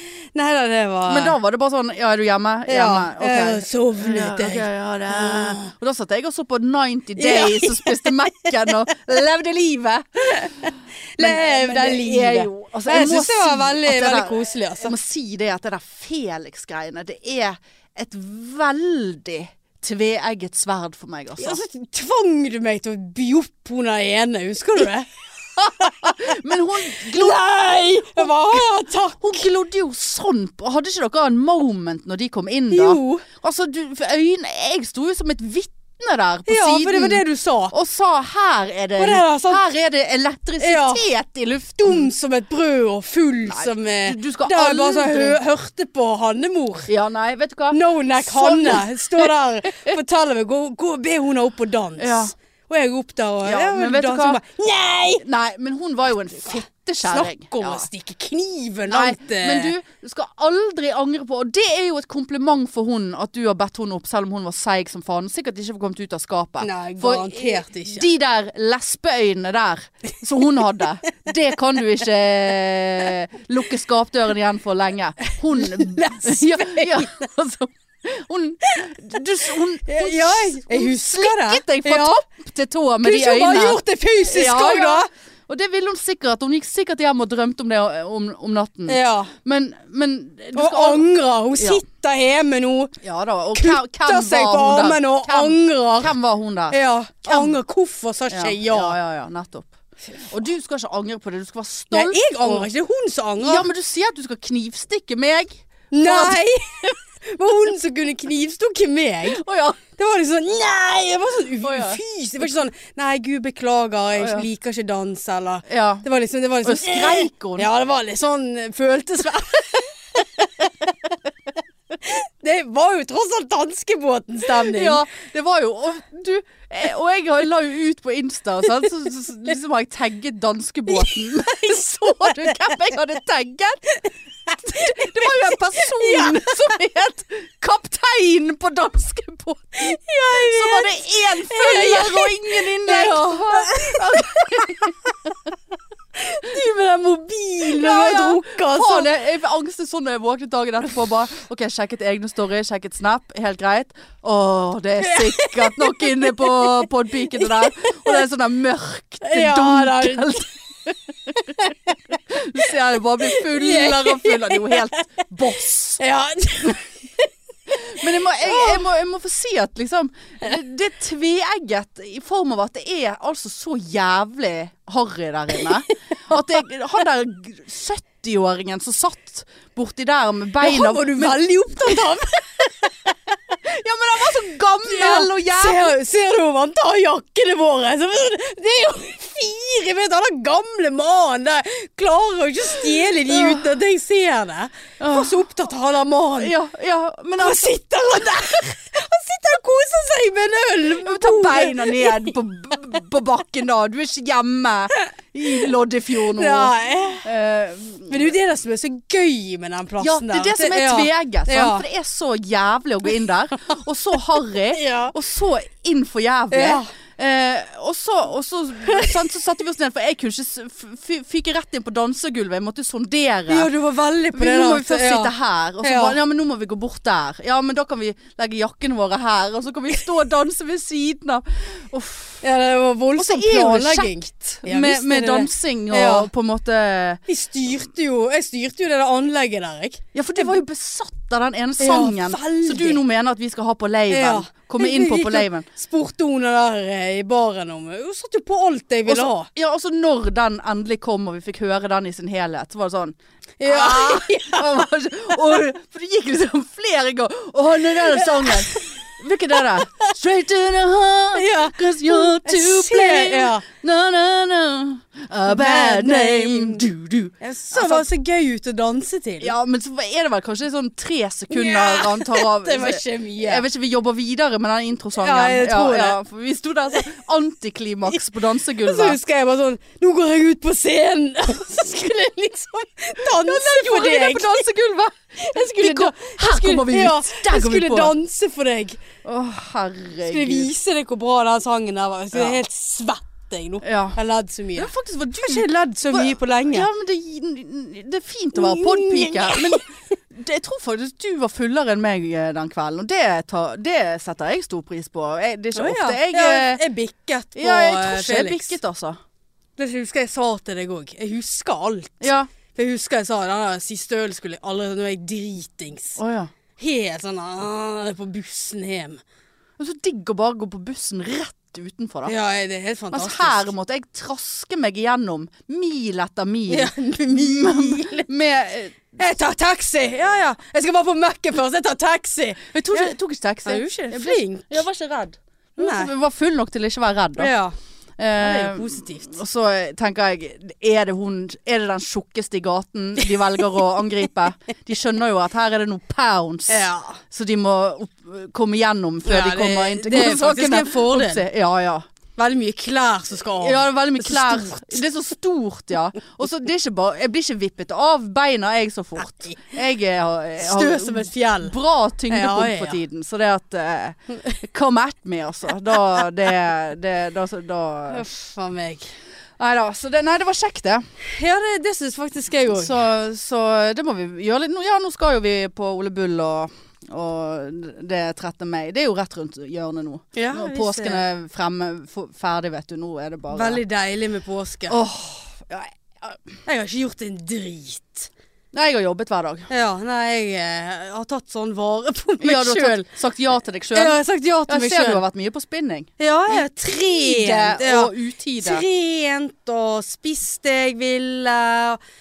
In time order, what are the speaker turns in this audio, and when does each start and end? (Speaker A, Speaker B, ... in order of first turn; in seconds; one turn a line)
Speaker A: 0.3-1.4
Speaker B: 1.1-21.6
Speaker A: 2.7-5.7
Speaker A: 7.2-8.7
Speaker A: 10.4-14.9
Speaker A: 21.4-25.1
Speaker B: 25.6-28.7
Speaker A: 25.7-29.5
Speaker B: 29.2-42.1
Speaker A: 32.7-33.3
Speaker A: 36.5-37.7
Speaker A: 39.0-39.6
Speaker A: 40.6-41.1
Speaker A: 41.8-46.9
Speaker B: 43.5-45.4
Speaker B: 46.9-50.0
Speaker A: 47.7-55.2
Speaker B: 52.0-52.3
Speaker B: 53.5-54.4
Speaker B: 55.2-57.9
Speaker A: 56.5-59.7
Speaker B: 58.9-91.8
Speaker A: 66.6-68.1
Speaker A: 75.3-77.2
Speaker A: 79.8-82.2
Speaker A: 83.0-85.1
Speaker A: 88.9-89.3
Speaker A: 90.5-93.0
Speaker B: 93.0-97.6
Speaker A: 93.5-96.2
Speaker A: 96.7-99.0
Speaker B: 98.3-102.7
Speaker A: 101.9-103.7
Speaker B: 103.4-106.9
Speaker A: 105.9-121.0
Speaker B: 109.3-109.8
Speaker B: 111.6-112.0
Speaker B: 114.2-114.5
Speaker B: 115.7-116.1
Speaker B: 116.6-117.7
Speaker A: 122.0-125.0
Speaker B: 124.5-133.9
Speaker A: 132.4-132.7
Speaker A: 134.5-136.6
Speaker B: 134.5-144.9
Speaker A: 139.8-145.1
Speaker A: 146.2-149.1
Speaker B: 147.7-161.7
Speaker A: 155.0-158.2
Speaker A: 159.2-160.5
Speaker A: 161.4-162.0
Speaker B: 162.3-166.0
Speaker A: 163.2-165.1
Speaker A: 166.0-167.3
Speaker B: 167.7-182.1
Speaker A: 168.0-168.8
Speaker A: 175.9-176.4
Speaker A: 180.6-183.6
Speaker B: 183.6-185.9
Speaker A: 184.9-196.6
Speaker B: 193.3-193.7
Speaker B: 195.0-195.4
Speaker B: 196.4-197.8
Speaker A: 197.4-202.3
Speaker B: 201.0-208.3
Speaker A: 205.0-207.3
Speaker A: 208.1-211.8
Speaker B: 210.0-223.7
Speaker A: 214.7-215.2
Speaker A: 216.5-216.9
Speaker A: 218.9-219.2
Speaker A: 223.5-226.2
Speaker B: 224.3-232.4
Speaker A: 232.4-236.3
Speaker B: 233.2-237.2
Speaker A: 237.3-240.5
Speaker B: 240.1-245.7
Speaker A: 241.8-243.0
Speaker A: 244.1-249.5
Speaker B: 249.1-268.1
Speaker A: 253.6-254.7
Speaker A: 258.4-259.1
Speaker A: 261.3-263.6
Speaker A: 265.5-266.9
Speaker A: 267.4-269.5
Speaker B: 269.4-279.2
Speaker A: 271.5-273.6
Speaker A: 275.2-276.2
Speaker A: 278.8-284.7
Speaker B: 283.2-288.1
Speaker A: 285.4-289.0
Speaker B: 289.2-290.7
Speaker A: 290.2-296.9
Speaker B: 292.3-292.6
Speaker B: 293.8-294.2
Speaker B: 294.8-306.8
Speaker A: 298.5-299.9
Speaker A: 305.8-308.8
Speaker B: 307.6-309.2
Speaker A: 309.8-316.2
Speaker B: 312.2-312.5
Speaker B: 316.2-316.5
Speaker A: 316.8-319.2
Speaker B: 319.8-322.3
Speaker A: 322.2-323.7
Speaker B: 323.1-329.2
Speaker A: 326.7-328.3
Speaker A: 329.2-333.1
Speaker B: 332.7-337.5
Speaker A: 333.7-334.9
Speaker A: 335.8-336.1
Speaker A: 337.4-337.8
Speaker B: 338.2-352.1
Speaker A: 338.4-339.4
Speaker A: 346.7-347.2
Speaker A: 349.3-351.5
Speaker A: 352.4-355.0
Speaker B: 353.6-368.2
Speaker A: 360.6-361.8
Speaker A: 362.3-363.0
Speaker A: 368.1-369.1
Speaker B: 369.6-371.0
Speaker A: 371.2-373.0
Speaker B: 372.7-383.8
Speaker A: 380.4-381.2
Speaker A: 383.5-385.0
Speaker B: 384.9-386.4
Speaker A: 386.7-388.3
Speaker B: 388.7-389.7
Speaker A: 389.7-393.1
Speaker B: 392.4-398.9
Speaker A: 393.9-395.2
Speaker A: 396.2-402.0